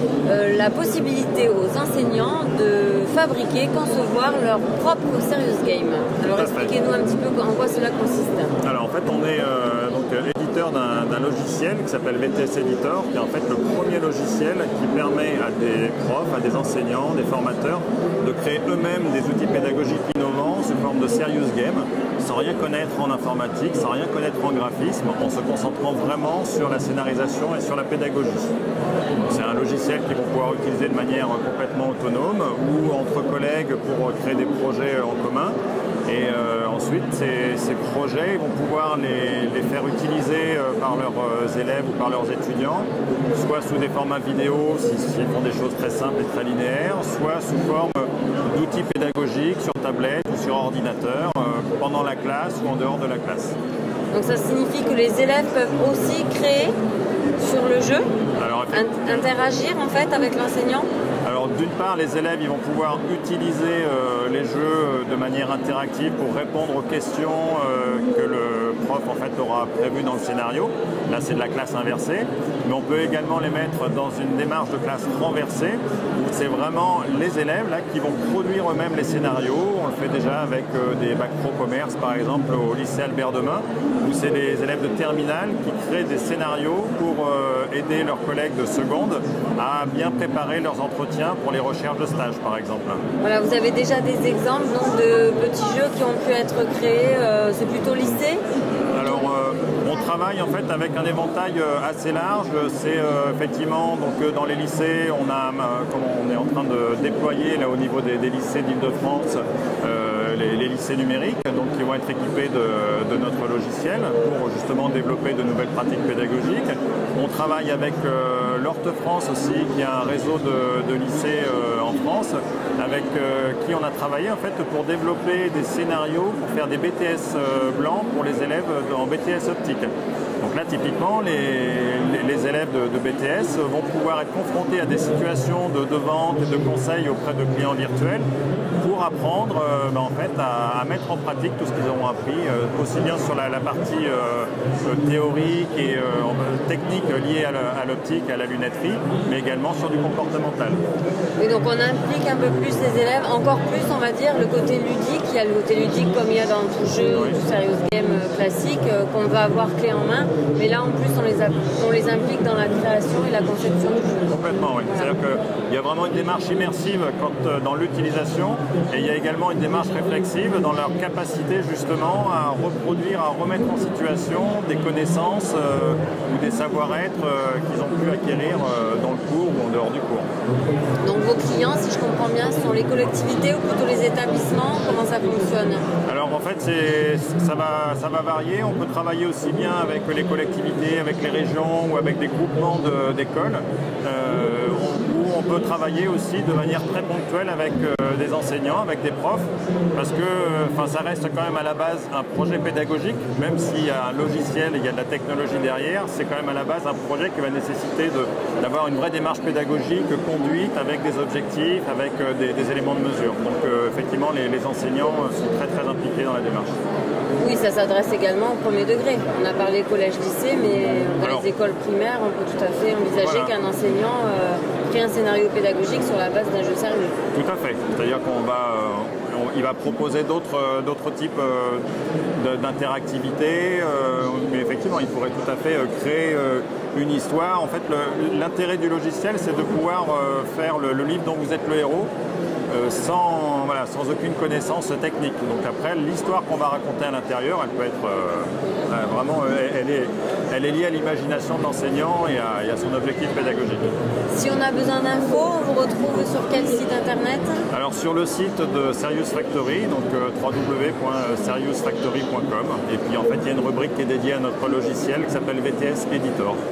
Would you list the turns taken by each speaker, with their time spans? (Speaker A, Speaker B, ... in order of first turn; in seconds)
Speaker A: 0.3-8.5, 54.1-56.8, 57.4-58.1, 58.7-60.9, 93.2-98.4, 151.4-164.3, 181.0-185.8, 217.4-227.2, 254.3-257.6
Speaker B: 6.3-6.7, 8.6-28.5, 29.3-53.6, 58.4-59.3, 61.2-93.0, 98.9-129.9, 130.4-138.3, 138.8-150.8, 157.0-157.4, 164.3-180.3, 186.1-216.8, 221.2-221.5, 223.2-223.5, 227.3-231.8, 232.4-242.1, 242.7-253.9, 257.7-266.6